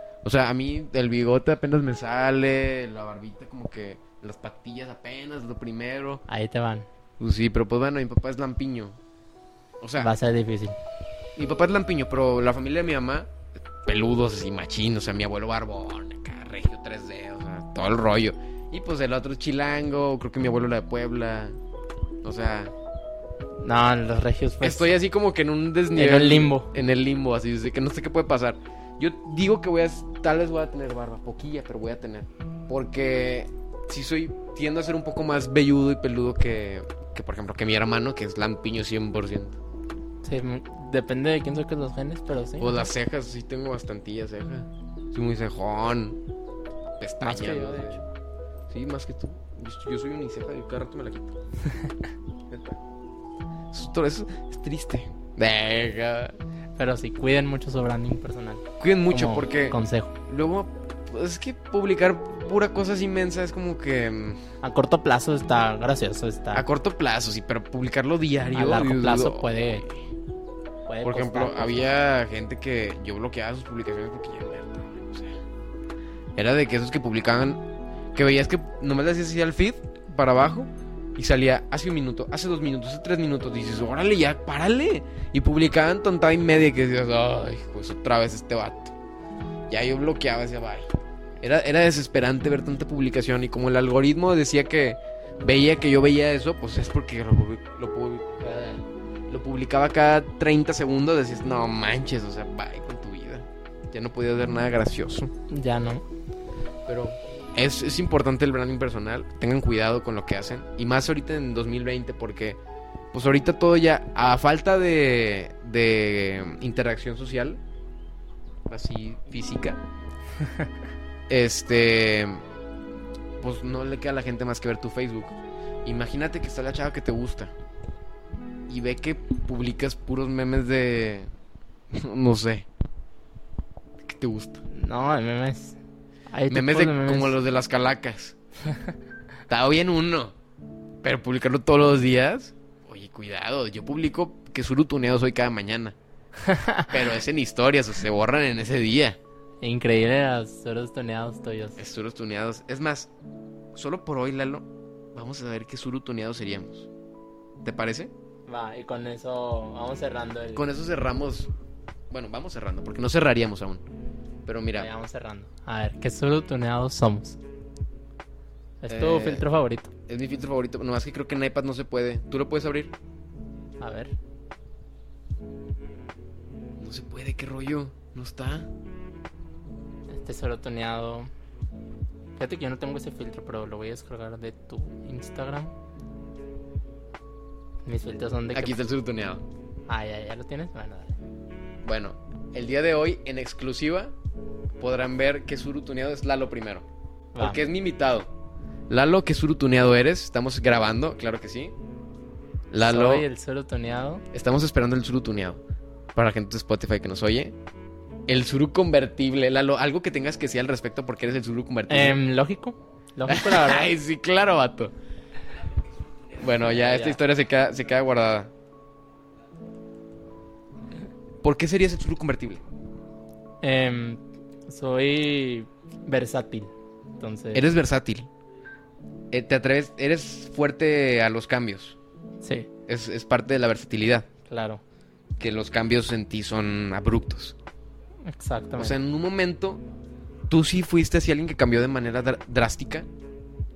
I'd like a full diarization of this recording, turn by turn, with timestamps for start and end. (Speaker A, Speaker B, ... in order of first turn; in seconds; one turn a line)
Speaker A: 0.2-6.2
Speaker B: 6.3-6.9
Speaker A: 7.2-9.0
Speaker A: 9.8-10.1
Speaker B: 10.0-10.8
Speaker A: 11.3-13.3
Speaker A: 13.8-21.6
Speaker A: 22.2-22.7
Speaker B: 23.6-24.9
Speaker A: 24.6-39.6
Speaker B: 25.9-26.7
Speaker B: 40.2-42.9
Speaker A: 42.6-46.2
Speaker A: 47.0-48.0
Speaker B: 47.2-48.0
Speaker A: 48.7-51.3
Speaker A: 52.5-52.8
Speaker A: 53.7-56.4
Speaker B: 56.8-60.1
Speaker A: 58.8-64.4
Speaker B: 64.6-66.7
Speaker A: 66.5-69.9
Speaker B: 68.5-69.8
Speaker B: 70.9-71.9
Speaker A: 71.0-75.4
Speaker A: 76.3-77.6
Speaker A: 78.1-88.9
Speaker A: 89.7-90.9
Speaker A: 91.4-105.3
Speaker B: 105.5-106.0
Speaker A: 106.9-112.6
Speaker A: 113.1-117.6
Speaker A: 118.7-119.8
Speaker A: 121.3-122.4
Speaker A: 123.4-127.5
Speaker A: 128.7-131.3
Speaker A: 131.9-132.7
Speaker A: 134.0-134.6
Speaker B: 134.7-135.8
Speaker B: 136.3-137.3
Speaker A: 136.5-138.3
Speaker A: 139.5-140.3
Speaker A: 141.0-145.9
Speaker B: 146.4-146.9
Speaker A: 146.9-149.2
Speaker B: 149.6-151.8
Speaker A: 151.8-153.1
Speaker A: 153.7-156.9
Speaker A: 157.6-158.1
Speaker B: 158.5-160.6
Speaker A: 160.5-161.5
Speaker A: 162.1-163.8
Speaker A: 164.4-164.9
Speaker B: 164.8-167.4
Speaker B: 168.8-169.9
Speaker A: 168.9-169.4
Speaker A: 170.1-172.9
Speaker B: 173.8-174.1
Speaker A: 176.8-178.7
Speaker B: 180.1-181.3
Speaker B: 182.4-185.7
Speaker B: 187.8-188.8
Speaker A: 188.5-189.4
Speaker B: 189.9-191.1
Speaker A: 191.8-194.1
Speaker A: 194.8-196.8
Speaker B: 197.3-197.6
Speaker A: 197.4-198.3
Speaker A: 198.9-201.7
Speaker A: 202.7-203.2
Speaker B: 202.8-204.2
Speaker A: 204.3-205.6
Speaker A: 206.1-207.5
Speaker A: 208.3-212.2
Speaker B: 211.9-213.9
Speaker A: 213.3-214.9
Speaker A: 216.3-218.5
Speaker B: 216.7-217.2
Speaker A: 221.4-222.6
Speaker B: 223.6-227.7
Speaker A: 227.5-228.3
Speaker A: 229.3-232.0
Speaker B: 232.4-232.7
Speaker A: 232.9-234.3
Speaker B: 234.5-234.8
Speaker A: 235.4-237.6
Speaker B: 238.3-238.9
Speaker A: 238.8-239.8
Speaker A: 240.5-243.1